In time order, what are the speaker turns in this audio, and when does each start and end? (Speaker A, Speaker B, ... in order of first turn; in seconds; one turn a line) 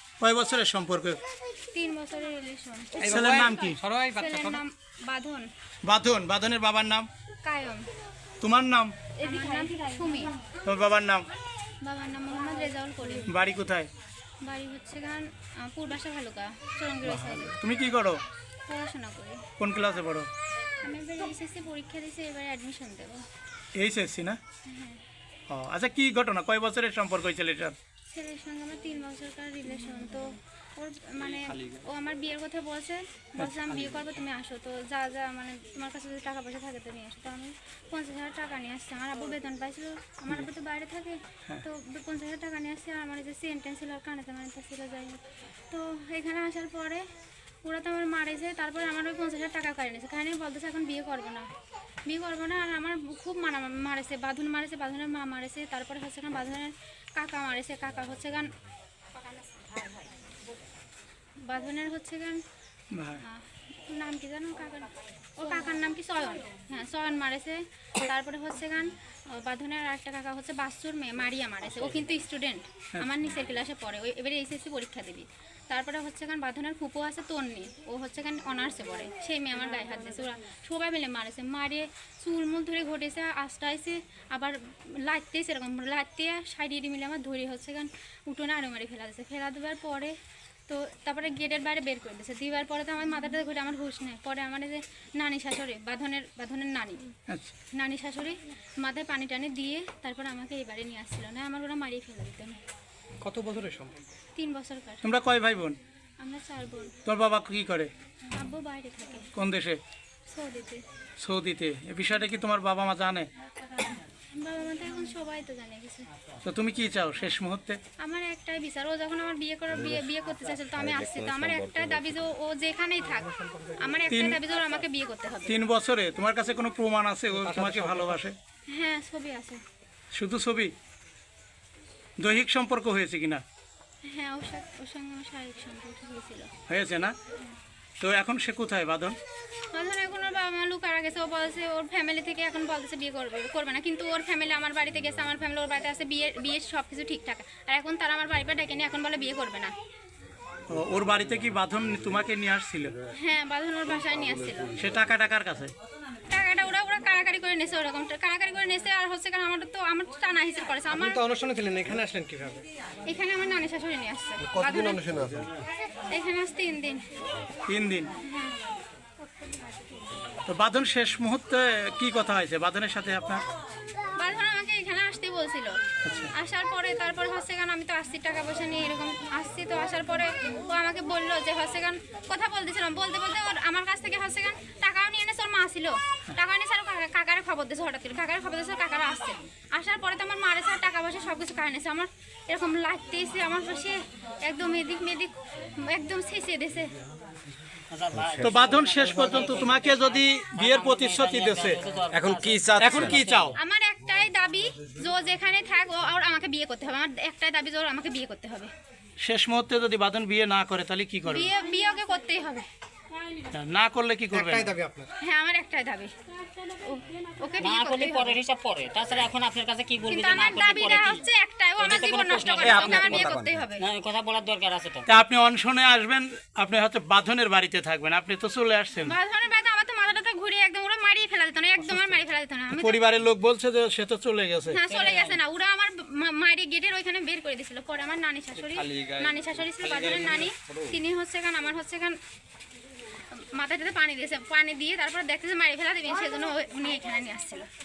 Speaker A: 0.2-1.2
Speaker B: 1.7-3.1
Speaker C: 3.0-4.6
Speaker A: 3.0-3.8
Speaker B: 4.2-5.5
Speaker A: 5.8-7.1
Speaker B: 7.4-7.9
Speaker A: 8.4-8.9
Speaker B: 9.2-10.3
Speaker A: 10.6-11.2
Speaker B: 11.8-13.3
Speaker A: 13.2-13.9
Speaker B: 14.4-17.6
Speaker A: 17.0-18.2
Speaker B: 18.6-19.5
Speaker A: 19.6-20.3
Speaker B: 20.8-23.2
Speaker A: 23.8-24.4
Speaker B: 24.6-25.0
Speaker A: 25.5-27.7
Speaker B: 28.1-47.0
Speaker A: 31.3-31.8
Speaker A: 33.4-34.0
Speaker B: 47.6-51.5
Speaker B: 52.0-58.5
Speaker B: 61.4-62.4
Speaker A: 62.9-63.2
Speaker B: 63.2-90.1
Speaker B: 90.7-97.0
Speaker A: 97.3-97.5
Speaker B: 97.7-102.6
Speaker C: 103.2-104.0
Speaker B: 104.3-105.0
Speaker A: 105.0-105.8
Speaker B: 106.2-106.9
Speaker A: 107.0-107.9
Speaker B: 108.3-109.3
Speaker A: 109.3-109.8
Speaker B: 110.3-110.8
Speaker A: 111.2-113.3
Speaker B: 114.3-116.0
Speaker A: 116.4-117.8
Speaker B: 118.0-125.6
Speaker D: 119.7-120.0
Speaker D: 120.7-122.2
Speaker C: 123.0-124.0
Speaker A: 124.1-124.4
Speaker A: 125.5-128.3
Speaker C: 127.3-128.2
Speaker B: 128.7-129.6
Speaker A: 130.1-130.7
Speaker A: 132.2-133.4
Speaker B: 134.1-136.5
Speaker A: 136.7-137.1
Speaker A: 138.0-139.2
Speaker B: 139.7-149.7
Speaker A: 150.7-152.9
Speaker B: 153.2-154.8
Speaker A: 154.8-155.7
Speaker B: 156.3-161.2
Speaker C: 160.9-162.6
Speaker B: 163.1-165.1
Speaker D: 164.4-165.5
Speaker B: 166.1-167.0
Speaker A: 167.7-168.1
Speaker B: 168.2-168.6
Speaker A: 170.5-173.4
Speaker B: 174.2-175.8
Speaker A: 176.0-176.3
Speaker B: 176.3-196.9
Speaker E: 197.9-203.5
Speaker A: 198.4-201.8
Speaker D: 202.1-203.2
Speaker A: 202.8-203.6
Speaker B: 203.5-208.7
Speaker A: 209.2-211.5
Speaker B: 211.3-212.7
Speaker A: 213.5-214.7
Speaker C: 214.3-215.1
Speaker B: 215.2-216.1
Speaker B: 216.7-218.4
Speaker E: 217.6-221.2
Speaker B: 220.1-223.8
Speaker E: 221.8-225.1
Speaker D: 222.6-223.6
Speaker A: 225.1-229.1
Speaker B: 229.0-233.0
Speaker A: 232.7-234.8
Speaker B: 234.7-242.2
Speaker E: 234.9-235.4
Speaker D: 238.7-240.8
Speaker B: 243.3-247.7